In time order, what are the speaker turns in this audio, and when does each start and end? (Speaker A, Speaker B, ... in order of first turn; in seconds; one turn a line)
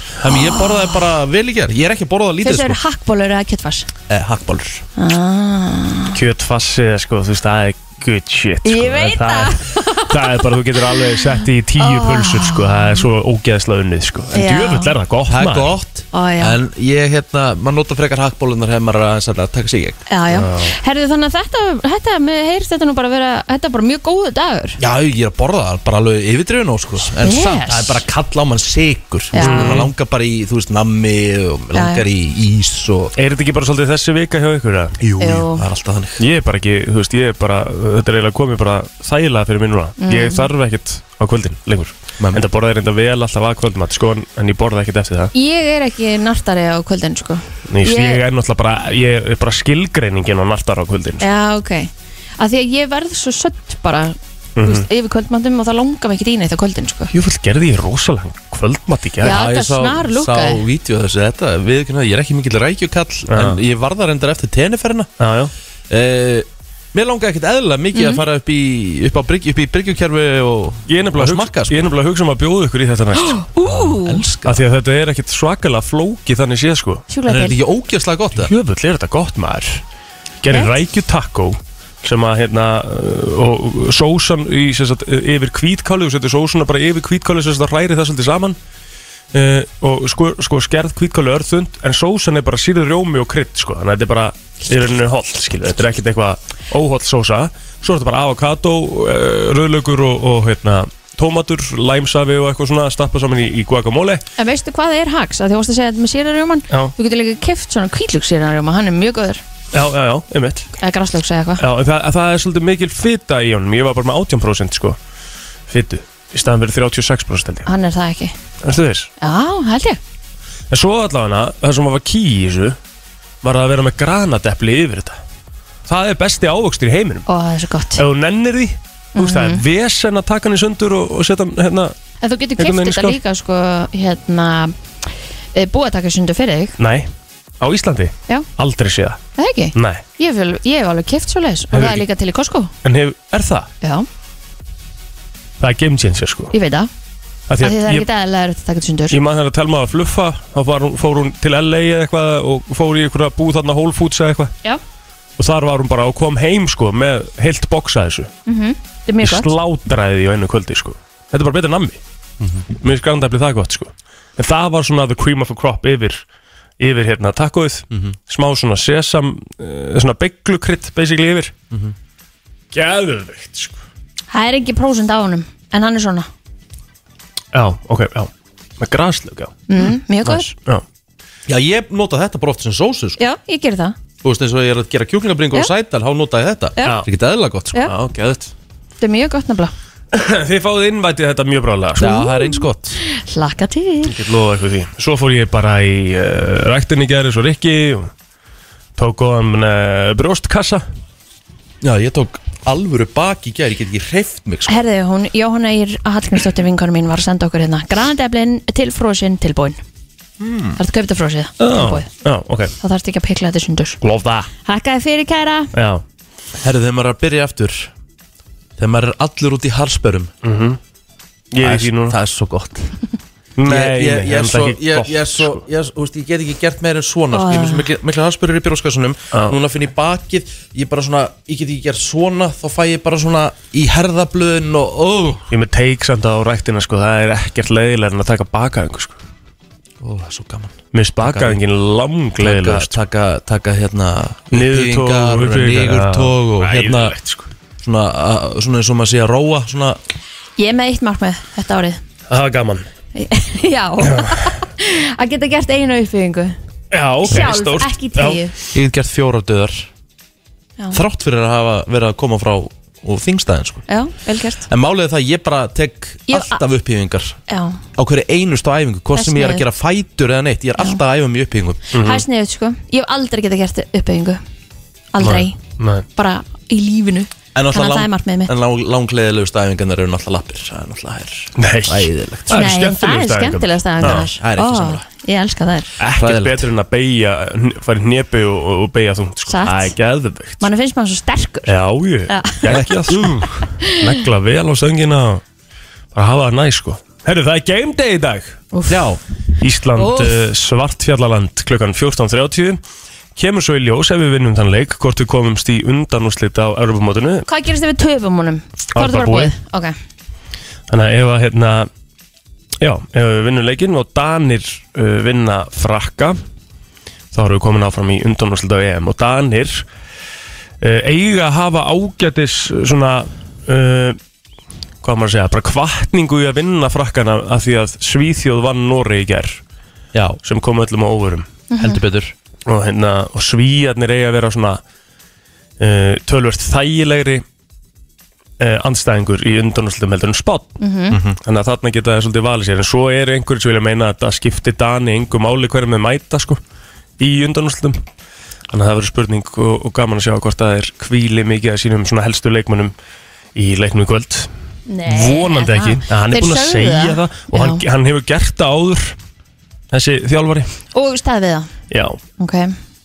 Speaker A: 0.2-2.8
Speaker B: 0.3-0.9
Speaker B: 2.4-3.9
Speaker A: 4.1-4.8
Speaker B: 5.0-6.2
Speaker C: 6.1-15.7
Speaker B: 8.6-10.1
Speaker B: 11.8-13.0
Speaker B: 14.3-14.9
Speaker A: 15.3-20.0
Speaker B: 16.1-16.6
Speaker B: 20.1-24.8
Speaker C: 20.3-20.8
Speaker A: 24.8-33.1
Speaker B: 27.2-28.0
Speaker B: 29.3-29.8
Speaker C: 29.4-29.9
Speaker B: 31.7-32.0
Speaker C: 33.2-35.0
Speaker A: 35.0-36.2
Speaker B: 35.2-35.6
Speaker C: 36.2-45.3
Speaker B: 40.0-40.5
Speaker B: 45.3-48.2
Speaker C: 47.7-51.2
Speaker B: 51.2-57.1
Speaker C: 54.6-54.9
Speaker C: 57.1-59.4
Speaker B: 59.2-60.6
Speaker A: 59.2-65.1
Speaker C: 63.3-63.6
Speaker C: 65.2-65.5
Speaker A: 65.9-71.9
Speaker B: 67.9-68.2
Speaker C: 70.9-73.5
Speaker B: 73.2-74.2
Speaker A: 73.7-74.6
Speaker C: 74.5-77.0
Speaker B: 77.1-77.6
Speaker A: 77.3-78.5
Speaker C: 78.3-79.8
Speaker C: 80.4-88.6
Speaker B: 80.5-80.8
Speaker C: 89.3-104.2
Speaker B: 104.4-109.4
Speaker C: 109.7-110.7
Speaker B: 110.8-111.6
Speaker C: 111.6-115.0
Speaker C: 115.7-117.7
Speaker B: 117.7-118.3
Speaker C: 118.6-119.1
Speaker B: 119.2-120.0
Speaker C: 120.7-122.8
Speaker C: 123.4-125.2
Speaker C: 125.9-127.2
Speaker B: 127.3-128.0
Speaker C: 128.0-131.9
Speaker B: 129.2-129.6
Speaker B: 132.2-136.8
Speaker C: 132.6-133.2
Speaker C: 136.8-139.2
Speaker B: 139.4-142.7
Speaker C: 139.8-140.0
Speaker C: 141.7-142.1
Speaker C: 142.8-143.7
Speaker C: 145.6-146.5
Speaker B: 146.5-146.9
Speaker C: 147.5-148.1
Speaker B: 147.6-149.2
Speaker C: 149.1-154.5
Speaker C: 155.4-158.3
Speaker B: 158.5-159.5
Speaker C: 159.2-162.0
Speaker C: 162.8-166.2
Speaker C: 166.8-171.5
Speaker C: 172.7-173.8
Speaker B: 174.3-176.3
Speaker C: 177.5-180.8
Speaker B: 179.7-180.5
Speaker A: 181.5-183.2
Speaker B: 183.2-184.0
Speaker A: 184.2-187.8
Speaker B: 186.8-187.0
Speaker C: 187.8-188.5
Speaker B: 189.0-189.7
Speaker C: 190.1-192.1
Speaker A: 192.0-193.0
Speaker B: 192.0-194.2
Speaker C: 194.1-198.1
Speaker C: 199.0-200.8
Speaker A: 201.8-204.8
Speaker B: 204.7-209.8
Speaker A: 210.4-210.8
Speaker B: 210.8-212.1
Speaker C: 211.6-212.7
Speaker B: 212.8-214.0
Speaker C: 214.0-214.5
Speaker B: 214.7-215.7
Speaker C: 215.7-216.0
Speaker A: 216.6-217.9
Speaker A: 218.8-220.3
Speaker C: 220.4-220.8
Speaker C: 221.5-222.2
Speaker A: 221.6-222.9
Speaker C: 223.6-225.6
Speaker A: 223.7-235.4
Speaker B: 227.3-227.9
Speaker C: 235.5-239.1
Speaker A: 240.0-241.6
Speaker C: 240.9-243.0
Speaker A: 242.4-247.2
Speaker C: 244.5-247.5
Speaker A: 247.8-250.0
Speaker B: 250.6-252.0
Speaker C: 252.3-252.8
Speaker B: 253.2-256.6
Speaker C: 256.9-258.5
Speaker B: 257.3-258.5
Speaker A: 258.7-259.9
Speaker A: 260.9-263.9
Speaker B: 263.9-264.7
Speaker A: 264.7-267.4
Speaker B: 266.3-266.6
Speaker B: 267.5-267.8
Speaker A: 268.0-271.8
Speaker B: 269.1-269.6
Speaker C: 271.9-272.2
Speaker B: 272.0-274.4
Speaker B: 275.1-275.6
Speaker C: 275.2-276.1
Speaker B: 276.2-278.5
Speaker A: 277.6-282.7
Speaker C: 281.6-284.3
Speaker B: 282.5-285.9
Speaker A: 284.0-285.1
Speaker C: 286.0-290.7
Speaker A: 286.1-286.7
Speaker B: 289.5-289.9
Speaker B: 290.6-291.7
Speaker C: 291.7-295.4
Speaker B: 292.3-292.7
Speaker A: 292.7-293.6
Speaker B: 293.8-294.1
Speaker C: 296.1-298.6
Speaker B: 298.7-299.1
Speaker A: 298.9-299.2
Speaker C: 299.6-302.8
Speaker B: 300.0-300.4
Speaker C: 303.4-307.5
Speaker B: 307.5-309.9
Speaker C: 308.9-309.5
Speaker C: 310.9-311.9
Speaker C: 312.8-316.4
Speaker C: 317.3-319.9
Speaker C: 320.8-324.2
Speaker C: 325.0-329.6
Speaker A: 330.1-330.4
Speaker C: 330.4-331.5
Speaker B: 331.7-332.0
Speaker A: 331.8-332.3
Speaker C: 332.7-334.8
Speaker C: 335.8-337.4
Speaker C: 338.6-340.8
Speaker B: 340.8-341.2
Speaker A: 341.1-341.4
Speaker C: 341.4-346.6
Speaker C: 347.2-348.0
Speaker C: 348.7-352.9
Speaker C: 353.6-354.5
Speaker B: 354.9-357.8
Speaker C: 355.1-359.1
Speaker C: 359.9-360.7
Speaker B: 360.9-361.7
Speaker C: 361.9-362.2
Speaker B: 362.4-362.7